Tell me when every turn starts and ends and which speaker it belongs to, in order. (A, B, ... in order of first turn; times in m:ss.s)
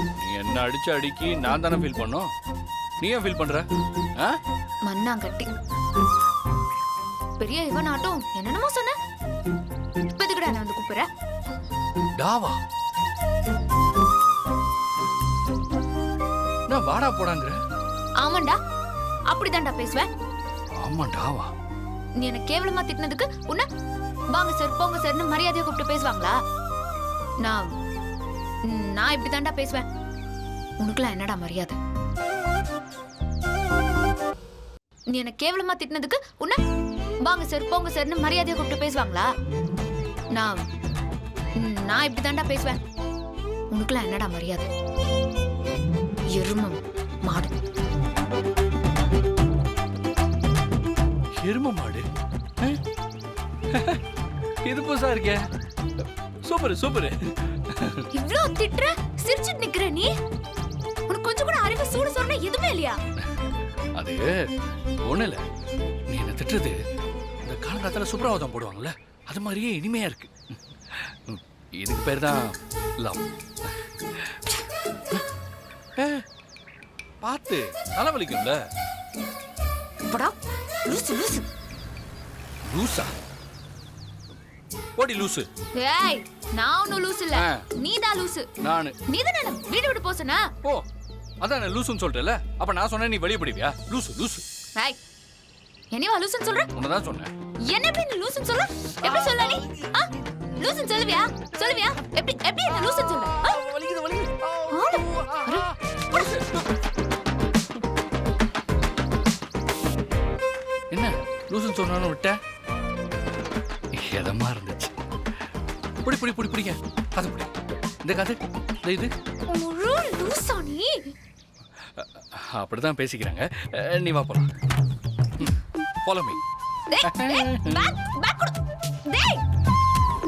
0:00.2-0:02.3 A
0:03.0-0:03.7 A
0:04.9-0:05.5 B
0:07.4-0:08.9 B
0:10.1-0:11.1 B
0:12.2-0:12.6 A
0:16.7-0:17.6 A
0:18.2-0:18.6 B
0:19.3-0:20.1 B
0:20.8-0:21.5 A
0:22.2-0:23.6 B
0:24.3-0:26.3 B
0:28.7-0:29.8 B
0:30.8-0:31.8 B
0:35.1-0:36.6 B
0:37.2-0:39.3 B
0:41.6-0:42.8 B
0:43.7-0:44.7 B
0:46.4-0:47.5 B
0:51.4-0:52.0 A
0:53.7-0:54.0 A
0:54.6-0:55.4 A
0:56.4-0:58.0 A
0:58.1-1:00.1 B
1:01.1-1:03.0 B
1:04.0-1:04.3 A
1:05.1-1:05.4 A
1:06.1-1:06.8 A
1:07.4-1:14.4 A
1:16.0-1:16.2 A
1:17.2-1:18.6 A
1:20.1-1:21.4 B
1:22.6-1:23.1 A
1:25.0-1:25.5 A
1:25.8-1:28.5 B
1:27.4-1:27.6 A
1:28.6-1:28.9 A
1:29.1-1:30.4 B
1:31.4-1:34.4 A
1:35.9-1:36.7 B
1:36.7-1:37.3 A
1:37.7-1:43.6 B
1:39.1-1:39.9 A
1:43.4-1:46.6 A
1:44.7-1:45.7 B
1:50.9-1:52.4 A
1:53.9-1:55.0 A
1:56.0-1:57.5 A
1:58.0-1:59.1 A
1:59.5-2:01.0 B
2:02.0-2:04.5 A
2:06.0-2:06.4 A
2:06.9-2:08.6 B
2:07.0-2:07.9 A
2:09.1-2:09.4 B